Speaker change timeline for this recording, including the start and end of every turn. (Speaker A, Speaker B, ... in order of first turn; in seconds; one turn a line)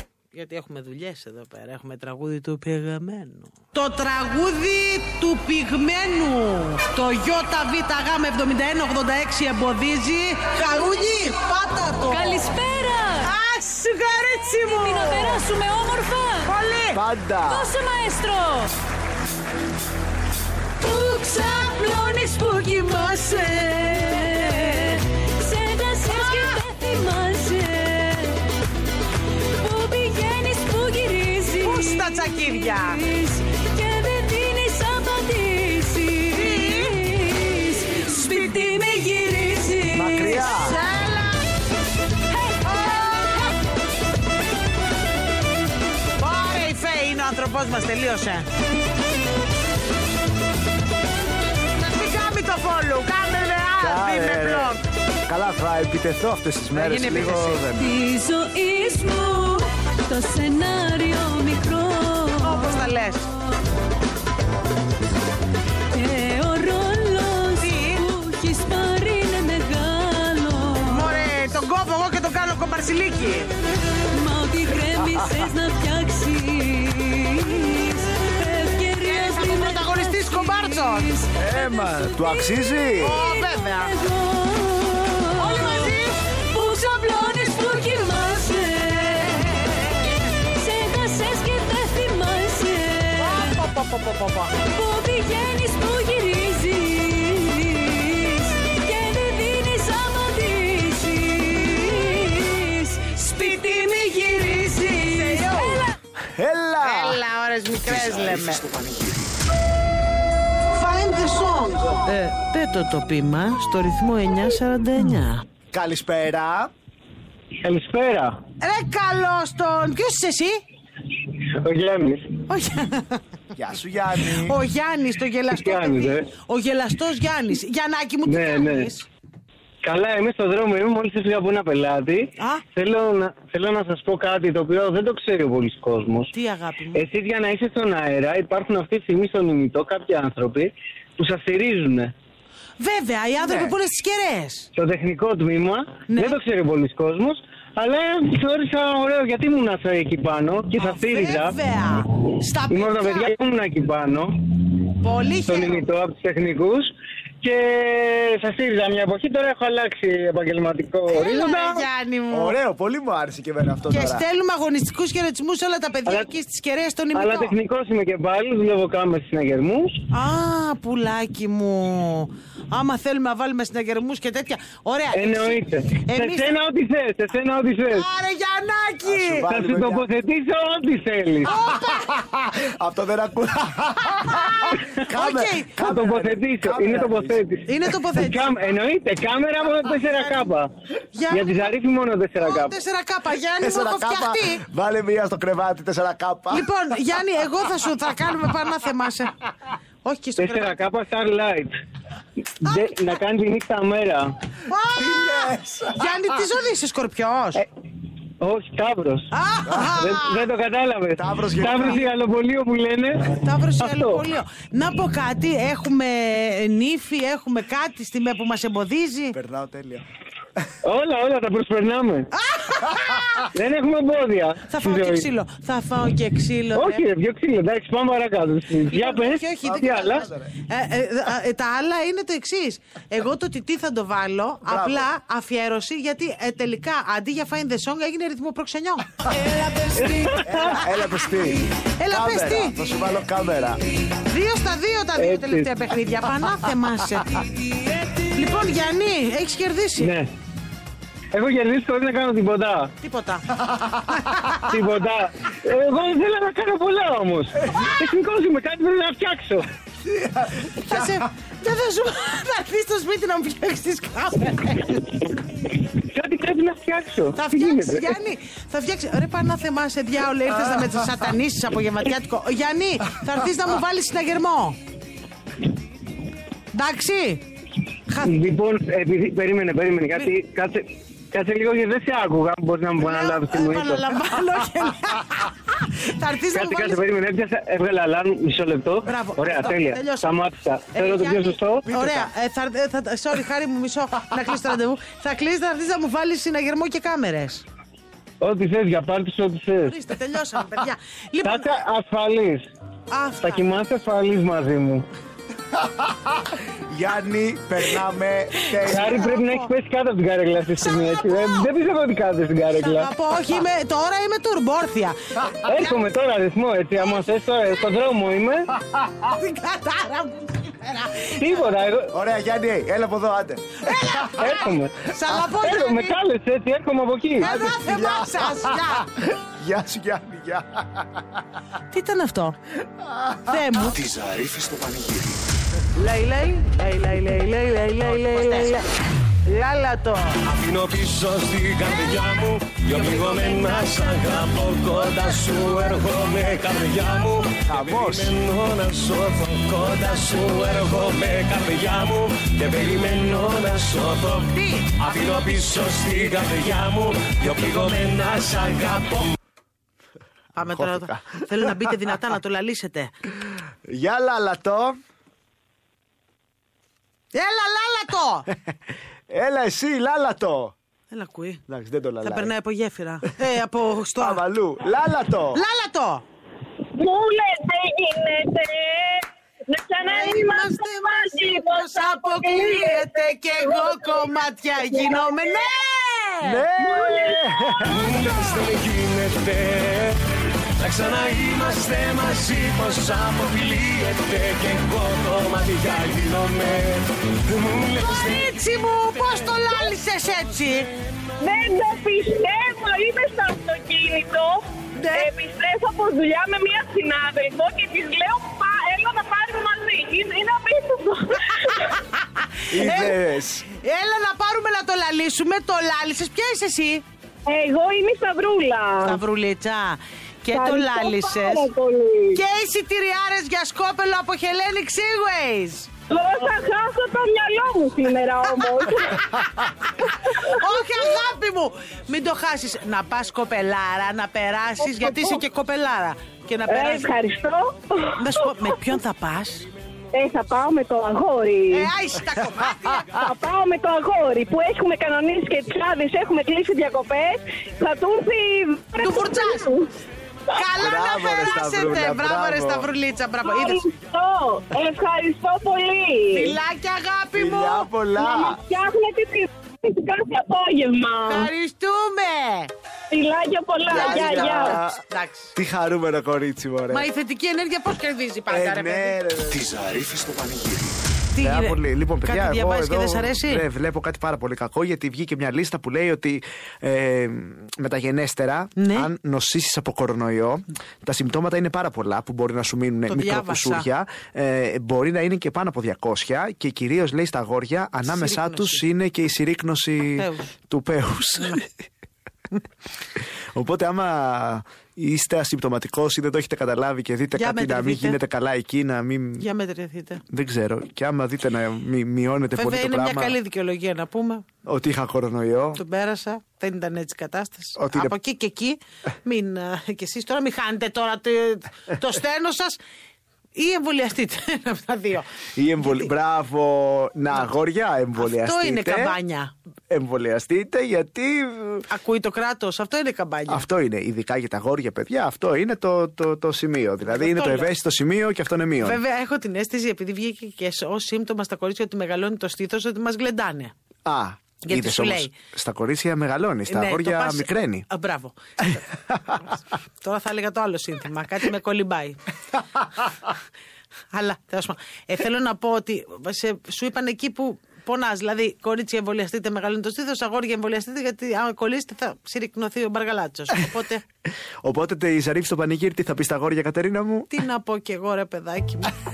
Speaker A: 0.3-12.3
Speaker B: 12.1-13.3
Speaker A: 13.2-15.4
Speaker B: 14.5-16.6
Speaker A: 16.4-17.0
Speaker C: 16.9-17.7
Speaker B: 17.4-18.7
Speaker A: 20.9-24.8
Speaker B: 20.9-28.4
Speaker A: 26.1-26.6
Speaker B: 29.5-40.6
Speaker A: 31.6-33.0
Speaker A: 36.3-37.0
Speaker A: 38.0-38.8
Speaker C: 39.9-40.8
Speaker A: 40.4-41.4
Speaker B: 42.5-43.4
Speaker A: 42.6-43.6
Speaker A: 46.2-48.5
Speaker A: 51.8-54.8
Speaker C: 53.8-58.0
Speaker A: 56.7-57.6
Speaker B: 57.8-63.2
Speaker A: 62.4-63.3
Speaker B: 65.9-71.0
Speaker A: 67.6-68.0
Speaker A: 70.9-73.5
Speaker B: 74.1-82.3
Speaker A: 79.0-81.1
Speaker C: 81.4-83.2
Speaker A: 83.0-83.9
Speaker B: 83.2-93.5
Speaker A: 85.4-86.6
Speaker A: 89.4-89.9
Speaker A: 93.2-94.5
Speaker B: 94.5-105.8
Speaker A: 103.2-105.8
Speaker C: 106.3-107.2
Speaker A: 106.8-108.6
Speaker D: 107.8-109.3
Speaker A: 110.7-115.4
Speaker C: 115.7-116.7
Speaker E: 117.6-118.4
Speaker A: 118.6-120.6
Speaker E: 121.5-122.3
Speaker A: 122.5-123.2
Speaker C: 123.5-124.6
Speaker A: 124.4-129.1
Speaker E: 125.5-126.3
Speaker E: 128.2-128.9
Speaker E: 129.8-136.3
Speaker A: 132.4-132.6
Speaker A: 136.3-137.0
Speaker E: 136.9-142.1
Speaker A: 142.8-144.7
Speaker C: 143.4-143.7
Speaker E: 144.8-151.6
Speaker A: 146.1-146.4
Speaker A: 150.8-153.3
Speaker E: 152.7-154.4
Speaker A: 155.0-155.9
Speaker E: 155.4-161.8
Speaker A: 161.1-162.6
Speaker C: 162.3-164.2
Speaker A: 163.9-167.5
Speaker E: 167.1-170.0
Speaker A: 170.1-176.6
Speaker E: 175.1-178.1
Speaker A: 177.9-179.5
Speaker C: 179.0-180.0
Speaker E: 179.5-181.5
Speaker A: 181.4-182.1
Speaker C: 181.9-187.4
Speaker A: 184.2-185.8
Speaker E: 185.8-190.7
Speaker A: 187.7-188.5
Speaker A: 191.1-191.7
Speaker E: 191.3-192.8
Speaker A: 192.4-194.6
Speaker C: 193.6-196.7
Speaker A: 196.5-199.3
Speaker A: 200.0-200.8
Speaker E: 200.4-201.7
Speaker E: 202.6-204.3
Speaker A: 204.7-207.6
Speaker C: 205.0-206.3
Speaker E: 208.4-214.2
Speaker A: 209.3-210.4
Speaker C: 211.2-212.0
Speaker A: 211.7-212.0
Speaker A: 213.4-219.4
Speaker C: 219.3-220.0
Speaker E: 220.8-222.3
Speaker A: 222.3-223.5
Speaker E: 223.5-225.3
Speaker A: 224.7-227.0
Speaker E: 226.7-230.2
Speaker A: 228.9-240.8
Speaker C: 229.6-230.5
Speaker C: 234.7-235.1
Speaker E: 240.0-240.8
Speaker C: 240.4-243.8
Speaker A: 242.0-242.8
Speaker A: 244.3-247.4
Speaker E: 245.2-245.7
Speaker A: 248.2-250.1
Speaker E: 250.0-250.3
Speaker E: 251.3-252.9
Speaker A: 253.0-253.5
Speaker A: 254.1-254.6
Speaker E: 254.7-259.6
Speaker C: 260.0-261.2
Speaker A: 260.8-265.1
Speaker E: 265.9-268.1
Speaker A: 267.4-274.8
Speaker A: 276.7-277.4
Speaker A: 278.1-278.4
Speaker E: 278.2-284.1
Speaker A: 283.0-287.0
Speaker E: 286.5-291.9
Speaker A: 289.0-290.3
Speaker A: 290.9-297.6
Speaker C: 292.0-292.2
Speaker E: 298.4-299.9
Speaker A: 299.8-301.8
Speaker E: 301.4-302.6
Speaker A: 303.1-303.6
Speaker E: 303.4-305.0
Speaker C: 305.8-309.3
Speaker A: 308.8-309.7
Speaker E: 308.9-313.1
Speaker A: 310.8-311.7
Speaker A: 312.8-316.0
Speaker E: 315.6-318.7
Speaker A: 319.3-321.7
Speaker E: 321.4-322.1
Speaker C: 322.1-324.2
Speaker A: 323.9-326.2
Speaker E: 324.3-327.5
Speaker A: 327.4-329.1
Speaker C: 327.4-331.4
Speaker A: 331.9-332.6
Speaker C: 333.0-333.6
Speaker A: 333.5-334.0
Speaker D: 333.7-335.6
Speaker A: 336.0-338.9
Speaker A: 339.5-340.4
Speaker F: 340.4-359.3
Speaker A: 342.9-344.5
Speaker C: 347.7-348.4
Speaker A: 354.5-354.9
Speaker A: 360.6-363.1
Speaker C: 360.6-361.9
Speaker C: 363.9-365.0
Speaker A: 367.3-368.5
Speaker C: 369.3-370.8
Speaker A: 371.1-371.6
Speaker C: 371.7-372.5
Speaker A: 372.2-374.4
Speaker C: 374.2-375.6
Speaker A: 375.5-376.2
Speaker G: 376.9-383.0
Speaker A: 380.0-386.6
Speaker C: 386.4-388.0
Speaker G: 386.9-387.4
Speaker F: 387.9-390.2
Speaker F: 390.8-398.6
Speaker A: 398.0-400.9
Speaker G: 401.4-411.9
Speaker A: 404.9-405.3
Speaker A: 412.6-417.0
Speaker C: 412.7-413.6
Speaker G: 417.4-419.2
Speaker A: 419.0-421.7
Speaker G: 420.5-422.4
Speaker A: 422.3-425.9
Speaker G: 426.1-429.3
Speaker A: 430.0-437.1
Speaker G: 430.2-430.6
Speaker G: 435.0-435.4
Speaker G: 436.7-438.3
Speaker A: 438.2-439.7
Speaker G: 440.1-441.9
Speaker A: 441.7-443.1
Speaker G: 443.1-449.9
Speaker A: 449.0-449.7
Speaker A: 450.5-453.9
Speaker C: 450.8-452.9
Speaker G: 453.4-456.6
Speaker A: 456.3-457.9
Speaker C: 457.3-458.6
Speaker G: 458.2-461.5
Speaker A: 461.2-462.7
Speaker G: 463.1-464.8
Speaker C: 463.9-465.0
Speaker A: 463.9-465.5
Speaker C: 465.5-467.1
Speaker A: 466.9-469.2
Speaker C: 468.5-469.6
Speaker D: 469.4-471.1
Speaker A: 471.3-473.6
Speaker C: 471.4-491.7
Speaker A: 478.8-479.1
Speaker A: 483.1-483.9
Speaker A: 488.0-488.8
Speaker A: 490.2-490.5
Speaker C: 493.5-499.4
Speaker A: 497.4-498.2
Speaker A: 499.4-500.2
Speaker C: 500.3-503.4
Speaker A: 502.6-504.4
Speaker C: 504.6-505.8
Speaker A: 505.8-512.8
Speaker C: 507.8-508.1
Speaker A: 513.5-516.1
Speaker C: 515.5-519.1
Speaker A: 518.2-519.5
Speaker C: 519.9-521.9
Speaker A: 521.9-523.6
Speaker C: 523.5-529.0
Speaker A: 527.0-527.7
Speaker A: 528.8-533.7
Speaker C: 534.0-537.9
Speaker A: 534.6-535.3
Speaker A: 536.7-538.8
Speaker C: 538.7-539.4
Speaker A: 540.0-542.2
Speaker A: 544.1-554.0
Speaker C: 554.6-557.3
Speaker A: 557.3-559.0